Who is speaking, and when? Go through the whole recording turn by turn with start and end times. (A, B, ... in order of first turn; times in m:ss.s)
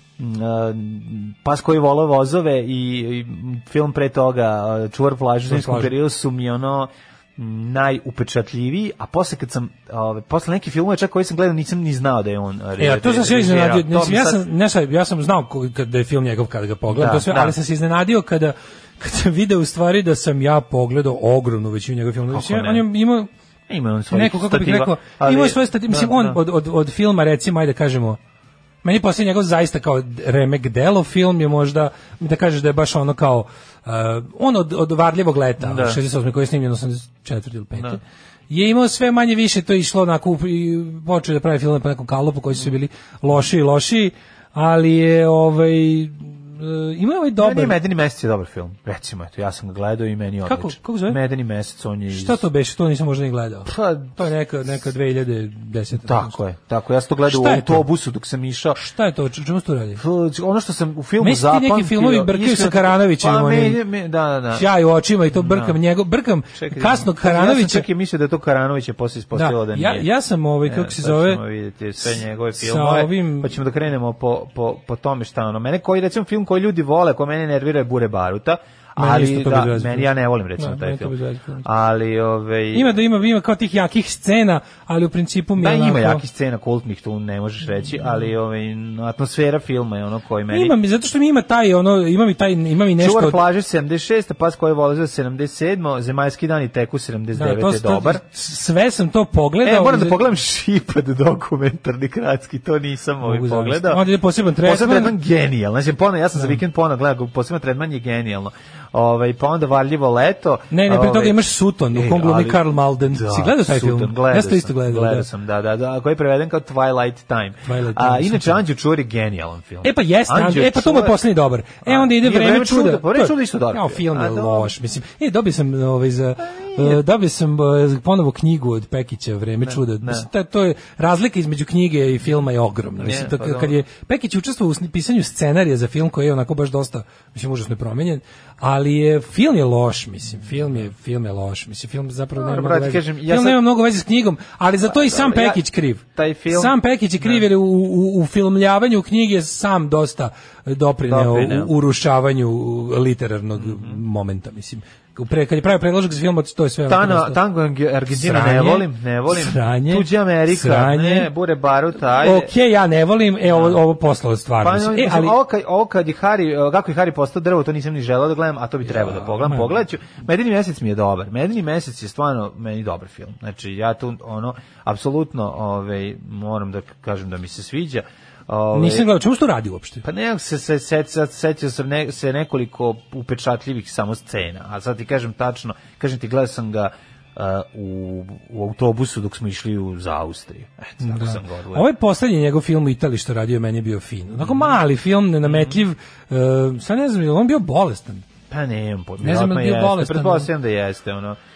0:00.2-0:14.4 A
0:05.5-0:06.0 B
0:12.8-0:23.3 B
0:16.9-0:17.6 A
0:22.3-0:22.9 A
0:23.7-0:26.4 A
0:24.1-0:28.2 B
0:28.8-0:47.8 B
0:35.6-0:36.0 A
0:47.4-0:52.4 A
0:50.4-0:51.2 B
0:52.1-0:56.4 B
0:53.7-0:54.3 A
0:56.0-0:58.8 A
0:57.3-0:57.9 B
0:58.8-1:00.0 B
1:00.0-1:04.7 A
1:01.2-1:03.8 B
1:04.5-1:07.9 B
1:05.3-1:05.8 A
1:06.5-1:10.1 A
1:09.3-1:11.4 B
1:10.6-1:22.9 A
1:12.0-1:13.6 B
1:19.0-1:21.7 B
1:22.7-1:26.2 B
1:25.6-1:30.7 A
1:30.5-1:33.4 B
1:33.0-1:38.2 A
1:37.3-1:40.2 B
1:39.6-1:44.0 A
1:43.2-1:45.2 B
1:44.6-2:01.2 A
1:50.7-1:55.3 B
1:57.6-1:58.6 B
1:59.8-2:37.4 B
2:01.8-2:04.7 A
2:06.6-2:07.0 A
2:09.6-2:10.3 A
2:13.0-2:13.8 A
2:22.4-2:23.6 A
2:24.8-2:25.6 A
2:26.2-2:27.4 A
2:31.0-2:31.7 A
2:33.6-2:34.0 A
2:36.9-2:42.5 A
2:38.1-2:41.3 B
2:42.2-2:45.4 B
2:43.5-2:43.8 A
2:44.6-2:59.1 A
2:48.8-2:49.8 B
2:58.7-3:00.0 B
3:00.0-3:11.9 A
3:11.0-3:18.3 B
3:14.4-3:14.7 A
3:15.4-3:15.8 A
3:18.5-3:21.4 A
3:19.2-3:20.5 B